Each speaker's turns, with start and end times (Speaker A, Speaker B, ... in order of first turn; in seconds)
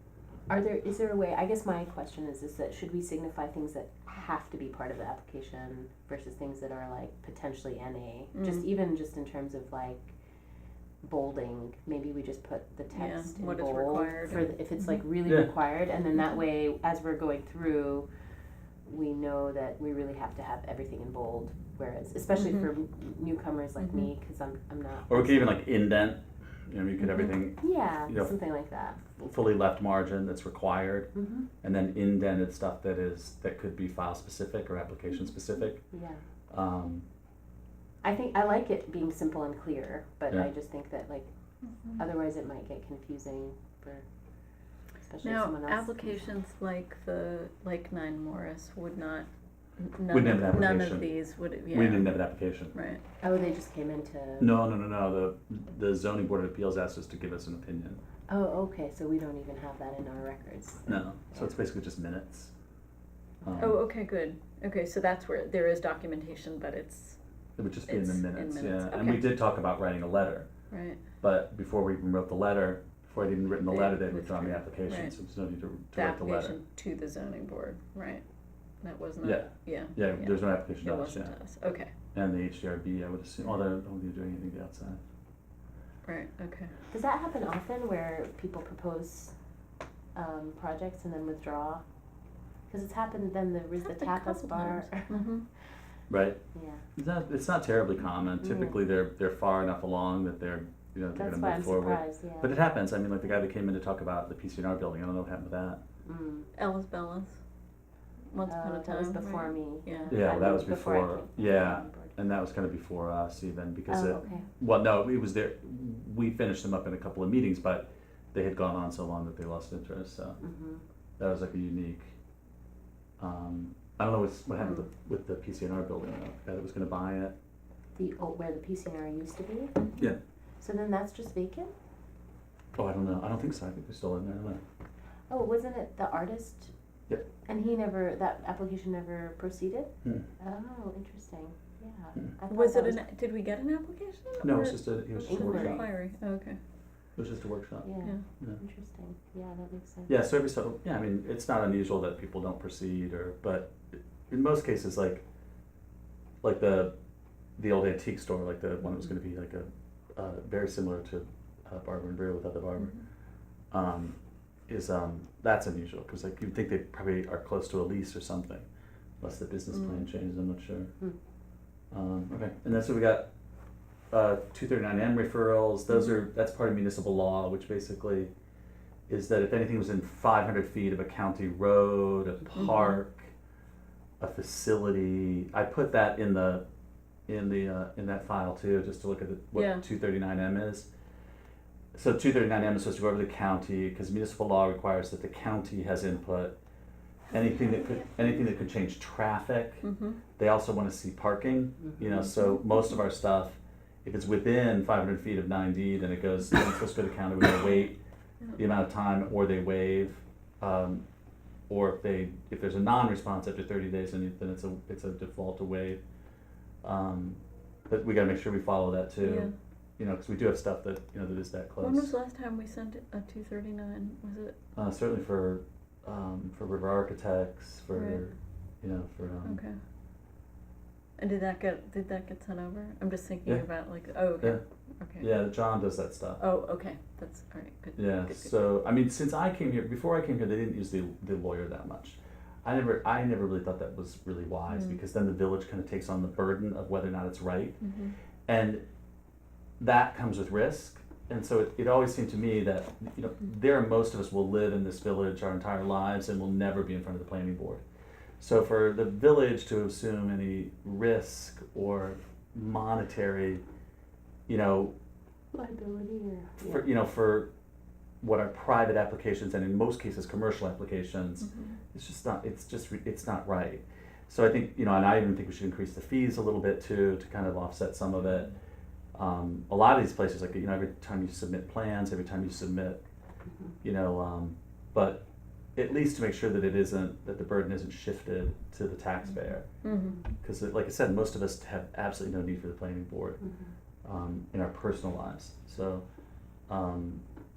Speaker A: 0.5-10.1, 11.0-18.1, 18.9-25.5, 27.6-29.0, 31.1-31.5, 35.9-36.2, 38.0-41.3, 42.0-44.0, 45.0-46.4, 53.2-54.6, 58.3-61.5, 86.9-89.3, 90.1-91.8, 92.7-95.2, 96.5-96.8, 98.4-98.8, 101.1-102.5, 106.0-106.5, 108.5-112.2, 113.9-114.5, 120.4-120.8, 128.0-129.8, 130.6-131.7, 135.3-136.7, 137.4-143.0, 145.2-145.9, 147.8-150.1, 265.5-266.9, 293.4-293.7
Speaker B: 8.3-8.7, 12.9-15.0, 22.4-22.7, 23.8-24.1, 41.8-42.0, 45.2-49.3, 49.8-52.2, 52.7-53.0, 63.6-67.2, 67.9-69.3, 70.7-71.0, 73.6-75.2, 75.9-78.2, 78.8-81.9, 86.0-86.7, 93.8-95.4, 106.5-107.3, 108.3-110.2, 129.8-130.1, 142.5-146.6, 169.7-170.1, 175.9-176.2, 182.6-182.9, 189.5-189.8, 197.3-198.4, 199.8-200.2, 202.3-202.8, 219.2-219.5, 221.8-224.6, 227.9-228.2, 229.4-229.8, 231.2-235.3, 236.4-238.5, 244.7-245.0, 247.8-248.2, 271.4-271.8, 289.8-290.2
Speaker C: 25.1-28.3, 29.1-35.8, 36.5-37.0, 50.1-51.1, 51.7-52.7, 54.4-58.0, 60.9-62.5, 63.4-63.8, 67.6-70.5, 71.2-76.6, 79.2-81.4, 82.1-85.0, 96.1-96.4, 97.0-105.8, 110.1-120.4, 121.2-122.1, 123.2-127.3, 132.8-134.6, 144.4-145.8, 147.2-148.6, 150.1-155.2, 156.4-156.9, 157.6-163.0, 163.7-164.2, 164.7-168.7, 169.2-170.9, 171.9-173.3, 174.1-178.3, 179.1-183.3, 184.2-186.6, 187.3-190.9, 191.9-196.6, 197.3-199.8, 200.4-208.0, 208.6-211.0, 211.7-216.0, 216.8-222.1, 224.7-229.6, 235.2-236.4, 237.9-247.8, 248.5-248.8, 249.8-257.8, 258.4-263.6, 264.5-264.9, 266.6-267.5, 268.2-278.5, 279.1-283.0, 283.8-285.2, 285.8-289.7, 290.4-293.4, 294.0-296.0, 296.7-297.2